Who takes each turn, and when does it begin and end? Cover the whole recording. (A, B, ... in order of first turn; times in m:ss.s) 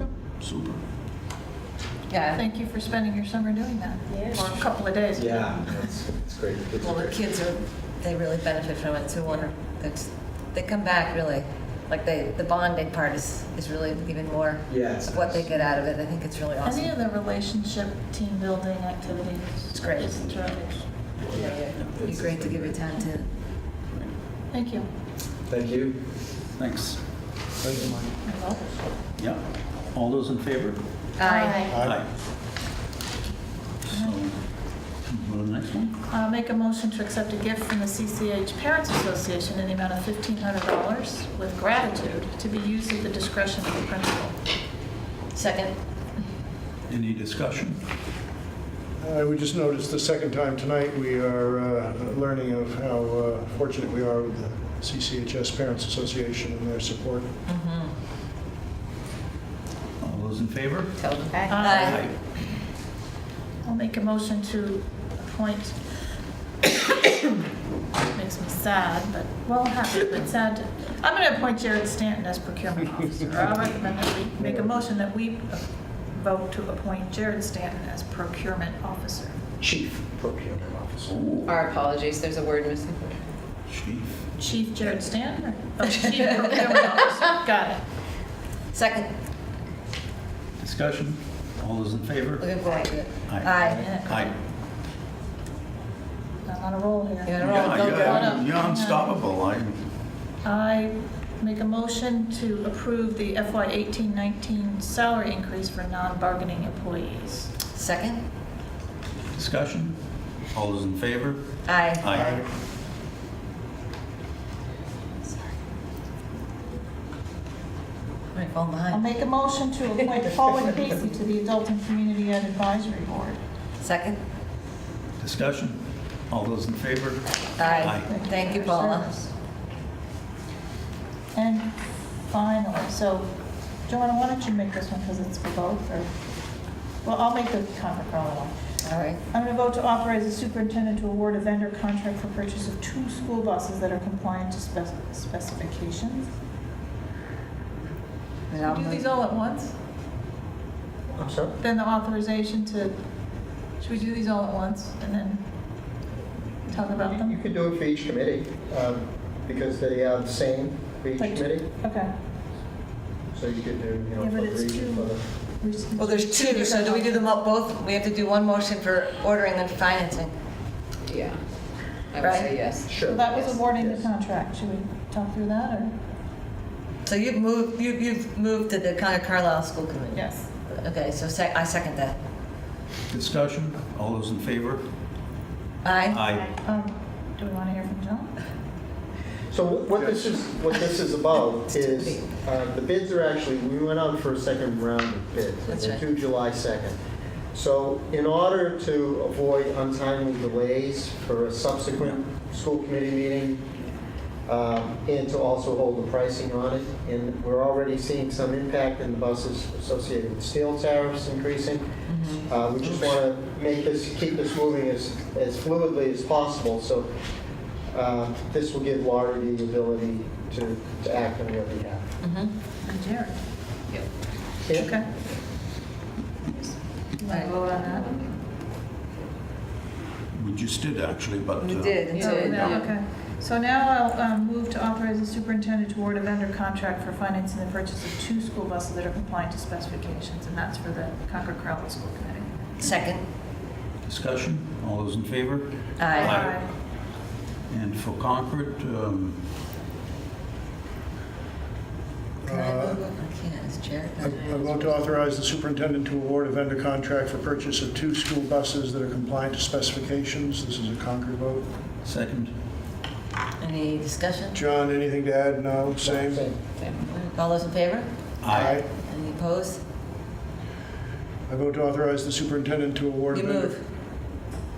0:00.4-0:00.8 A
0:02.1-0:02.4 B
0:02.3-0:05.7 C
0:05.1-0:07.2 D
0:06.8-0:16.9 B
0:14.6-0:15.6 D
0:16.6-0:20.9 C
0:19.7-0:20.2 B
0:21.2-0:21.9 A
0:21.2-0:22.8 D
0:22.0-0:23.3 B
0:24.5-0:24.8 C
0:25.5-0:26.0 D
0:26.6-0:27.0 A
0:27.6-0:28.1 E
0:28.2-0:28.8 C
0:29.2-0:30.8 A
0:31.2-0:31.7 B
0:31.3-0:31.7 F
0:31.7-0:32.0 E
0:31.8-0:32.1 A
0:33.8-0:34.4 A
0:35.0-0:35.9 A
0:36.1-0:44.4 C
0:45.3-0:45.7 B
0:46.9-0:47.8 A
0:49.0-0:57.3 E
0:57.4-0:57.9 B
1:00.0-1:02.2 A
1:01.3-1:02.0 F
1:01.5-1:01.8 C
1:01.6-1:02.0 B
1:03.6-1:05.8 C
1:08.1-1:19.4 C
1:14.4-1:14.7 G
1:19.6-1:21.2 G
1:21.0-1:21.6 A
1:21.5-1:23.0 F
1:23.7-1:24.3 A
1:24.4-1:27.8 C
1:28.7-1:29.1 B
1:30.6-1:34.3 A
1:32.4-1:33.9 B
1:33.8-1:34.3 C
1:36.4-1:39.1 C
1:37.2-1:38.4 B
1:37.4-1:39.8 A
1:40.4-1:47.5 C
1:47.7-1:48.2 B
1:49.3-1:52.4 A
1:51.6-1:52.2 B
1:58.3-1:59.1 B
1:58.9-2:03.4 C
2:03.8-2:04.2 B
2:05.2-2:08.1 A
2:07.6-2:09.1 B
2:07.6-2:09.3 C
2:11.3-2:13.3 C
2:13.8-2:16.1 C
2:17.0-2:18.6 C
2:18.8-2:19.2 B
2:19.3-2:26.3 C
2:28.5-2:29.2 B
2:28.6-2:29.7 C
2:31.1-2:31.6 G
2:31.6-2:33.0 C
2:33.8-2:35.4 C
2:36.7-2:37.4 C
2:36.9-2:41.6 G
2:41.2-2:42.1 C
2:43.3-2:45.2 G
2:44.2-2:47.3 C
2:45.9-2:50.3 B
2:52.1-2:52.8 F
2:52.2-2:52.5 B
2:52.9-2:54.0 G
2:53.0-2:55.9 C
2:57.0-3:02.2 B
3:00.1-3:00.5 C
3:03.1-3:04.8 A
3:05.8-3:06.2 B
3:06.1-3:06.5 A
3:06.5-3:08.3 C
3:09.5-3:17.0 G
3:11.8-3:12.1 B
3:15.7-3:16.0 B
3:17.5-3:23.6 G
3:24.4-3:37.1 G
3:32.1-3:32.4 B
3:37.9-3:42.1 G
3:42.2-3:42.5 B
3:42.8-3:43.4 C
3:44.6-3:45.0 G
3:44.7-3:45.1 C
3:46.5-3:48.1 C
3:47.3-3:47.7 B
3:47.7-3:48.3 F
3:50.3-3:52.1 A
3:51.6-3:52.8 B
3:52.1-3:52.9 F
3:52.2-4:02.5 C
4:02.8-4:03.2 B
4:04.0-4:06.6 A
4:06.0-4:06.4 B
4:06.1-4:06.7 C
4:07.7-4:09.4 A
4:12.4-4:13.0 E
4:12.4-4:15.1 B
4:14.2-4:21.6 E
4:22.0-4:22.5 A
4:23.6-4:24.6 B
4:24.5-4:26.5 E
4:26.0-4:26.6 G
4:27.1-4:29.8 B
4:28.4-4:28.7 A
4:28.5-4:28.8 E
4:31.5-4:33.7 E
4:33.3-4:33.8 B